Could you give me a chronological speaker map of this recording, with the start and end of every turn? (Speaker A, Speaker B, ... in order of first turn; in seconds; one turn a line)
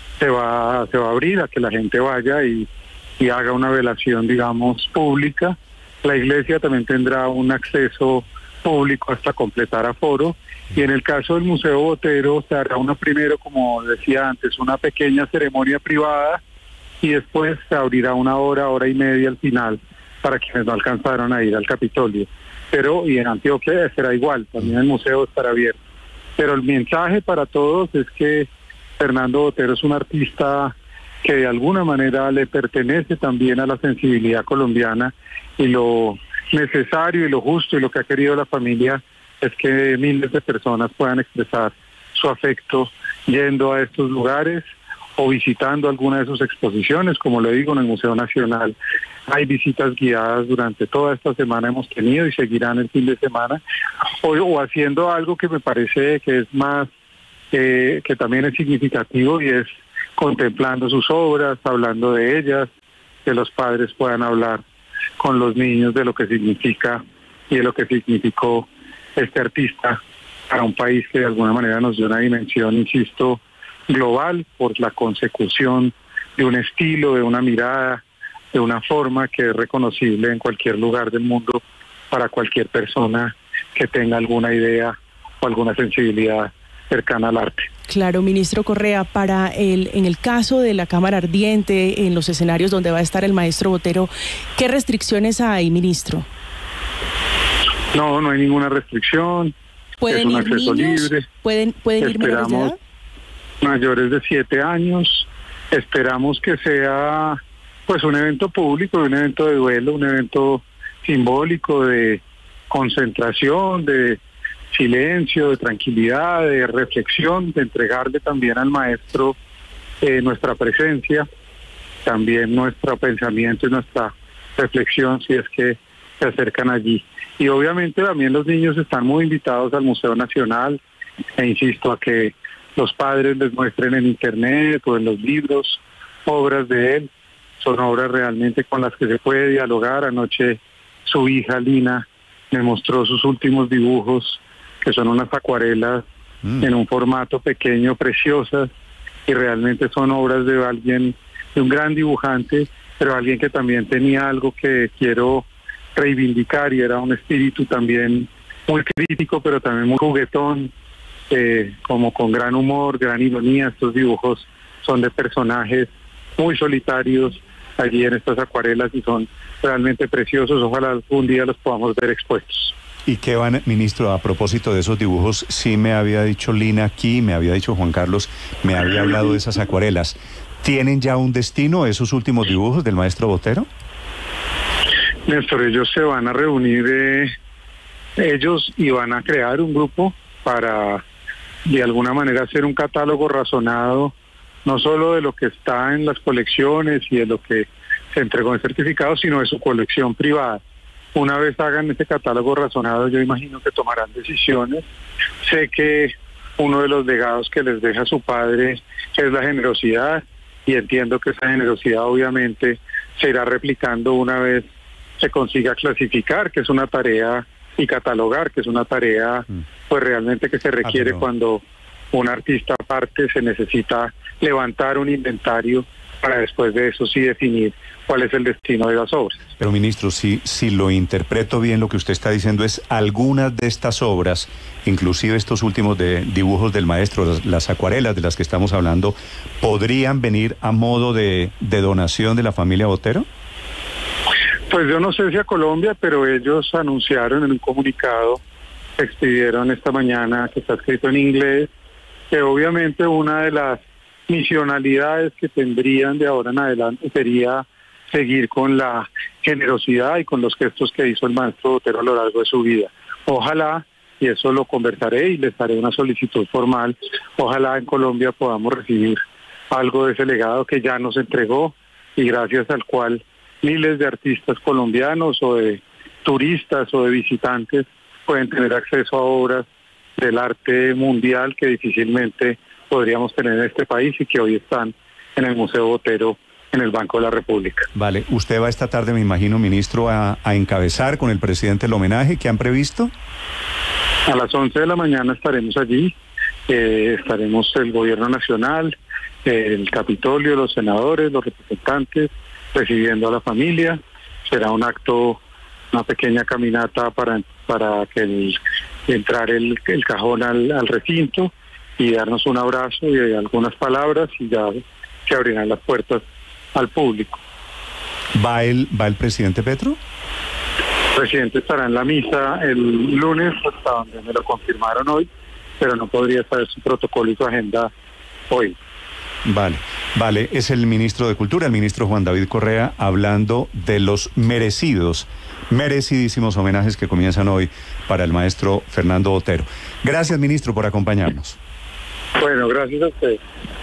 Speaker A: 0.2-2.7
Speaker A: 3.2-16.4
Speaker A: 17.0-25.8
Speaker A: 26.4-44.6
Speaker A: 45.2-48.8
Speaker A: 49.3-53.6
Speaker A: 54.2-56.9
Speaker A: 57.5-62.7
Speaker A: 63.2-64.6
Speaker A: 65.2-78.0
Speaker A: 78.5-87.7
Speaker B: 87.9-96.2
Speaker A: 97.9-99.5
Speaker B: 100.0-102.8
Speaker A: 100.1-101.3
Speaker A: 102.0-102.7
Speaker A: 103.6-114.2
Speaker A: 114.7-119.4
Speaker A: 120.0-121.3
Speaker A: 122.0-130.8
Speaker A: 131.4-137.1
Speaker A: 137.6-146.1
Speaker A: 146.6-148.7
Speaker A: 149.3-160.7
Speaker A: 161.3-172.7
Speaker C: 173.1-183.7
Speaker A: 185.2-187.3
Speaker A: 188.2-191.0
Speaker A: 191.7-194.1
Speaker A: 194.6-200.6
Speaker A: 201.1-204.8
Speaker A: 205.4-214.7
Speaker A: 215.2-221.6
Speaker C: 220.8-221.2
Speaker A: 222.1-229.4
Speaker C: 229.6-243.2
Speaker A: 244.7-248.4
Speaker A: 249.0-251.7
Speaker A: 252.3-269.2
Speaker A: 269.7-279.6
Speaker A: 280.2-287.9
Speaker C: 287.9-293.1
Speaker A: 294.3-296.1
Speaker A: 296.7-305.4
Speaker A: 305.9-317.4
Speaker C: 318.4-320.0
Speaker A: 321.1-325.3
Speaker A: 325.8-327.9
Speaker A: 328.5-328.8
Speaker C: 329.4-341.6
Speaker A: 342.4-343.4